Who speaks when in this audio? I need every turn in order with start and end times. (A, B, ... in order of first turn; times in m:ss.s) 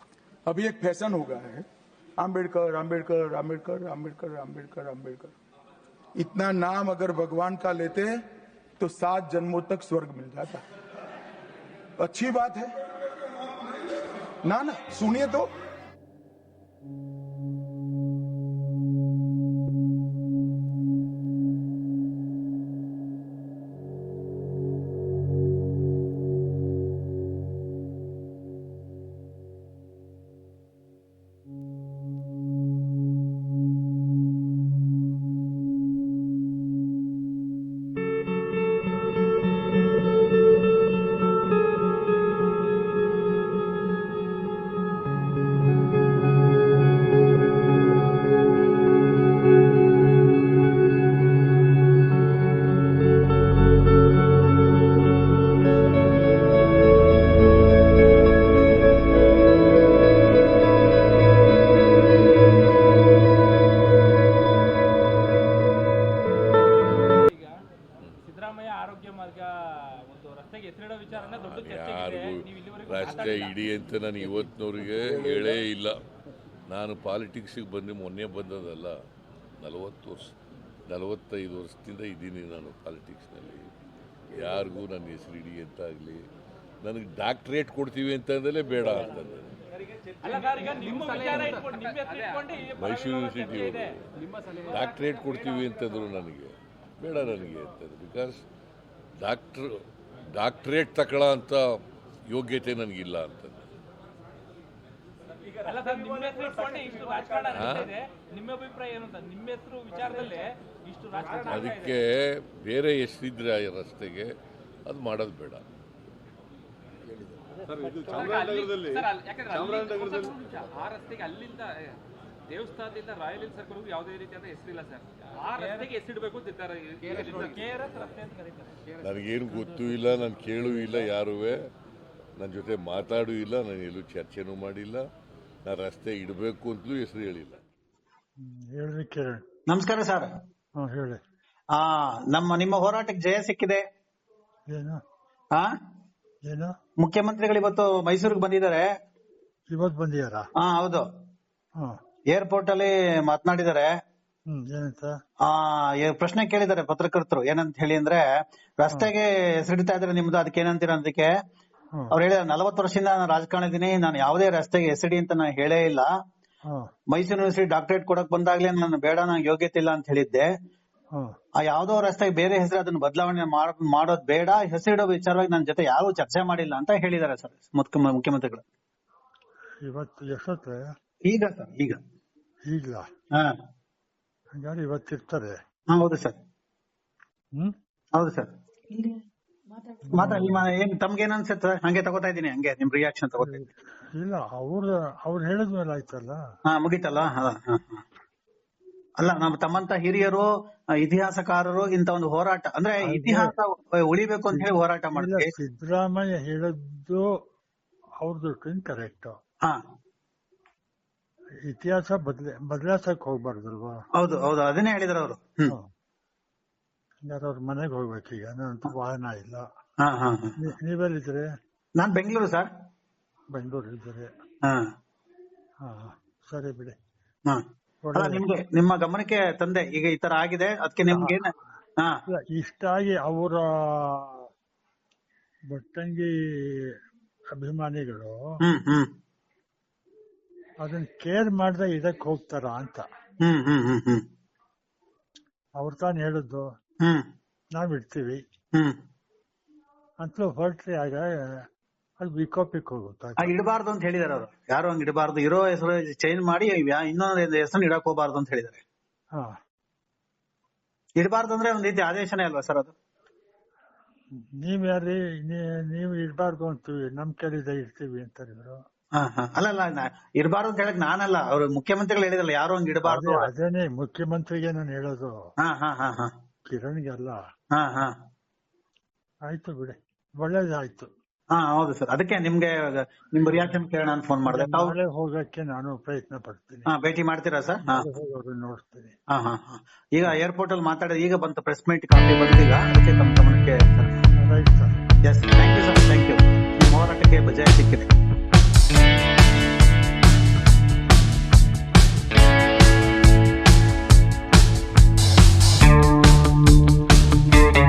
0:00.4-0:01.6 A
0:02.2-0:05.3 A
0:06.2-0:08.2 A
0:08.8-0:10.6 A
0:12.0-0:12.7 A
0:14.4-0:15.5 A
1:07.3-1:07.5 B
1:08.2-1:13.6 B
1:11.2-1:16.0 C
1:16.7-1:19.0 C
1:19.6-1:20.3 C
1:20.9-1:23.7 C
1:24.3-1:26.2 C
1:26.8-1:29.5 C
1:30.2-1:34.0 B
1:31.2-1:31.5 C
1:31.8-1:32.4 D
1:32.6-1:38.4 C
1:39.2-1:43.7 C
1:45.6-1:51.9 B
1:47.5-1:47.9 C
1:51.4-1:54.3 C
1:54.8-1:55.6 C
1:57.9-1:59.0 C
1:58.0-2:01.9 D
2:02.5-2:05.0 D
2:05.5-2:06.0 B
2:05.5-2:07.6 D
2:07.1-2:08.8 B
2:09.0-2:11.7 C
2:12.4-2:15.1 C
2:15.6-2:17.6 C
2:18.4-2:19.4 E
2:19.7-2:20.3 F
2:20.8-2:21.2 E
2:21.8-2:23.8 F
2:24.7-2:25.0 E
2:26.4-2:26.7 E
2:27.0-2:28.9 F
2:29.7-2:30.4 E
2:30.6-2:31.0 F
2:32.3-2:33.9 F
2:34.5-2:35.1 E
2:35.5-2:38.2 F
2:38.8-2:41.3 F
2:42.1-2:46.1 F
2:47.1-2:50.5 F
2:51.6-2:58.6 F
2:59.8-3:00.8 E
3:01.3-3:02.0 F
3:02.7-3:03.0 E
3:04.5-3:05.5 E
3:05.9-3:06.4 F
3:08.2-3:08.5 F
3:10.1-3:10.6 E
3:10.1-3:13.5 F
3:13.4-3:16.4 E
3:16.7-3:18.0 F
3:19.2-3:20.5 F
3:21.0-3:25.5 F
3:23.0-3:23.5 E
3:24.6-3:27.4 E
3:28.2-3:29.3 E
3:31.6-3:34.0 E
3:34.2-3:35.7 F
3:37.2-3:39.6 E
3:40.0-3:40.5 F
3:40.6-3:41.5 E
3:42.0-3:42.7 F
3:43.5-3:44.3 E
3:44.6-3:44.9 F
3:45.8-3:46.9 E
3:48.0-3:48.4 E
3:48.1-3:52.2 F
3:51.1-3:51.4 E
3:52.3-3:54.5 E
3:55.7-3:56.9 E
3:57.5-3:58.4 E
3:58.6-3:59.1 F
4:00.8-4:03.0 E
4:03.4-4:04.2 F
4:05.8-4:06.7 E
4:07.8-4:08.4 E
4:10.2-4:11.6 E
4:12.2-4:13.5 E
4:13.4-4:18.8 F
4:21.2-4:22.9 F
4:24.6-4:28.8 E
4:29.2-4:33.5 F
4:33.0-4:35.3 E
4:35.6-4:36.3 F
4:36.7-4:37.4 E
4:37.8-4:38.1 F
4:39.5-4:41.1 E
4:41.5-4:44.9 F
4:43.5-4:43.8 E
4:44.5-4:46.9 E
4:46.9-4:48.0 F
4:47.8-4:49.1 E
4:49.3-4:54.2 F
4:54.4-4:54.9 E
4:55.2-4:58.1 F